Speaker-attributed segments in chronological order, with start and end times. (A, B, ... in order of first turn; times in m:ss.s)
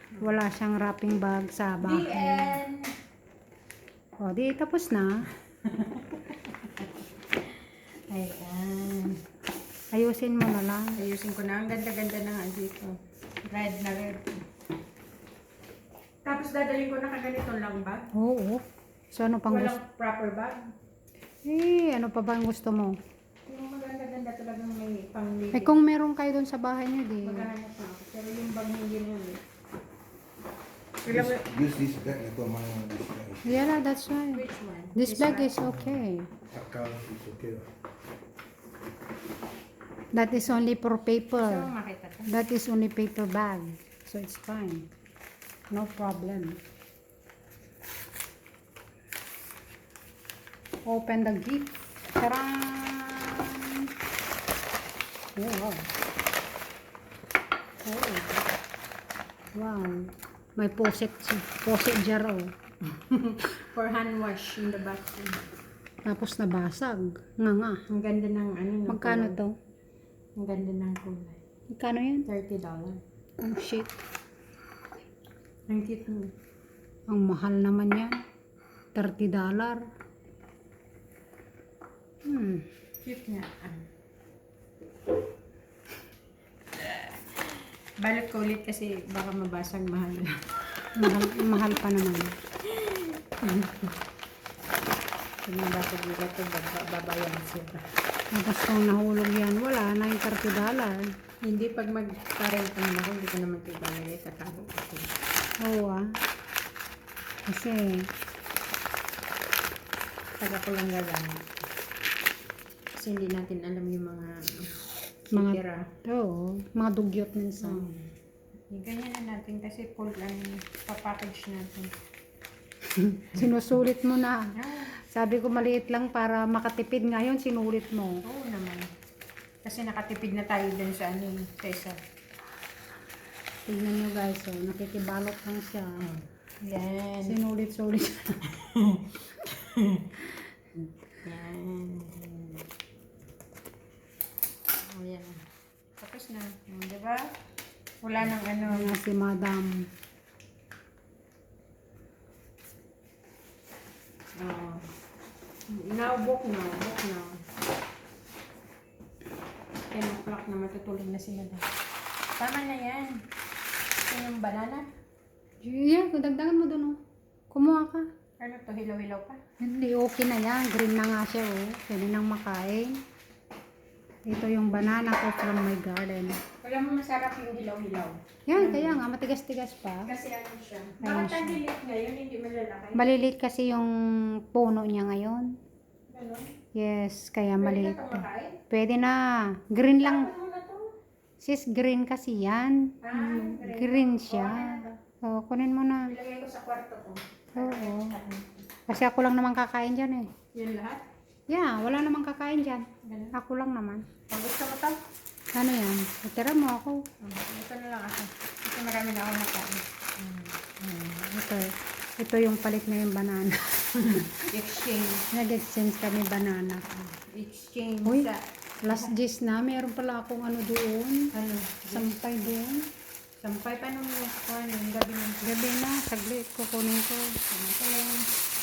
0:00.2-0:02.6 A
0:01.8-0:02.9 B
0:04.2-0:05.3 A
0:05.6-0:06.9 B
0:08.1-0:09.2 B
0:09.9-0:11.0 A
0:11.0-0:12.9 B
0:13.4-0:14.3 B
0:16.2-0:18.1 B
0:18.1-0:19.8 A
0:19.5-0:20.7 B
0:21.4-0:23.0 A
0:23.4-0:25.8 B
0:25.5-0:27.5 A
0:27.2-0:29.4 B
0:31.0-0:31.5 B
0:31.0-0:33.7 C
0:33.4-0:34.4 A
0:34.3-0:35.6 B
0:35.0-0:36.3 A
0:35.6-0:37.7 C
0:40.1-0:41.7 A
0:41.4-0:42.4 B
0:42.3-0:44.9 A
0:45.7-0:46.6 A
0:50.9-0:53.9 A
0:55.4-0:55.9 A
0:57.8-0:58.4 A
0:59.5-1:02.5 A
1:02.8-1:05.4 B
1:06.0-1:07.8 A
1:07.9-1:09.4 B
1:08.9-1:09.5 A
1:10.4-1:11.4 B
1:11.7-1:12.2 A
1:12.2-1:13.0 B
1:13.4-1:14.0 A
1:15.7-1:16.3 B
1:17.1-1:18.2 A
1:18.9-1:19.8 A
1:22.2-1:22.6 A
1:23.0-1:23.8 B
1:26.8-1:30.8 B
1:30.9-1:32.3 A
1:32.7-1:33.9 B
1:35.4-1:37.8 B
1:38.3-1:41.0 A
1:41.4-1:45.1 B
1:45.6-1:46.2 A
1:47.5-1:48.1 A
1:50.4-1:51.5 B
1:53.0-1:54.7 B
1:55.3-1:55.9 B
1:55.3-1:57.9 A
1:57.6-1:58.0 B
1:58.7-2:01.9 B
2:02.9-2:04.5 A
2:04.6-2:04.9 B
2:05.0-2:08.2 A
2:08.2-2:08.9 B
2:09.6-2:12.0 B
2:13.6-2:16.1 A
2:16.0-2:17.4 B
2:17.2-2:18.5 A
2:18.5-2:20.2 B
2:21.2-2:22.6 B
2:24.9-2:25.4 B
2:26.0-2:27.3 B
2:28.0-2:29.0 B
2:28.6-2:29.9 A
2:34.4-2:34.8 B
2:35.7-2:37.4 B
2:39.9-2:41.7 B
2:42.4-2:43.2 B
2:44.0-2:44.8 B
2:45.6-2:47.0 A
2:47.5-2:48.0 A
2:48.4-2:49.4 B
2:49.6-2:53.0 A
2:54.3-2:56.4 A
2:56.6-2:59.0 B
2:58.5-3:00.1 A
3:00.0-3:03.1 B
3:01.0-3:01.6 A
3:02.9-3:05.6 A
3:06.1-3:06.5 B
3:06.7-3:10.3 A
3:07.6-3:08.6 B
3:10.0-3:10.9 B
3:11.4-3:16.1 A
3:13.0-3:15.0 B
3:16.1-3:18.5 B
3:17.6-3:18.2 A
3:18.9-3:20.3 A
3:20.5-3:21.0 B
3:21.5-3:24.1 A
3:23.0-3:23.3 B
3:24.3-3:25.0 B
3:25.5-3:27.0 A
3:27.2-3:30.6 B
3:30.8-3:34.3 A
3:34.0-3:35.2 B
3:35.3-3:37.0 A
3:37.1-3:39.1 B
3:38.8-3:41.2 A
3:41.3-3:42.1 B
3:41.9-3:42.8 A
3:43.4-3:45.5 B
3:45.4-3:47.2 A
3:47.5-3:48.3 B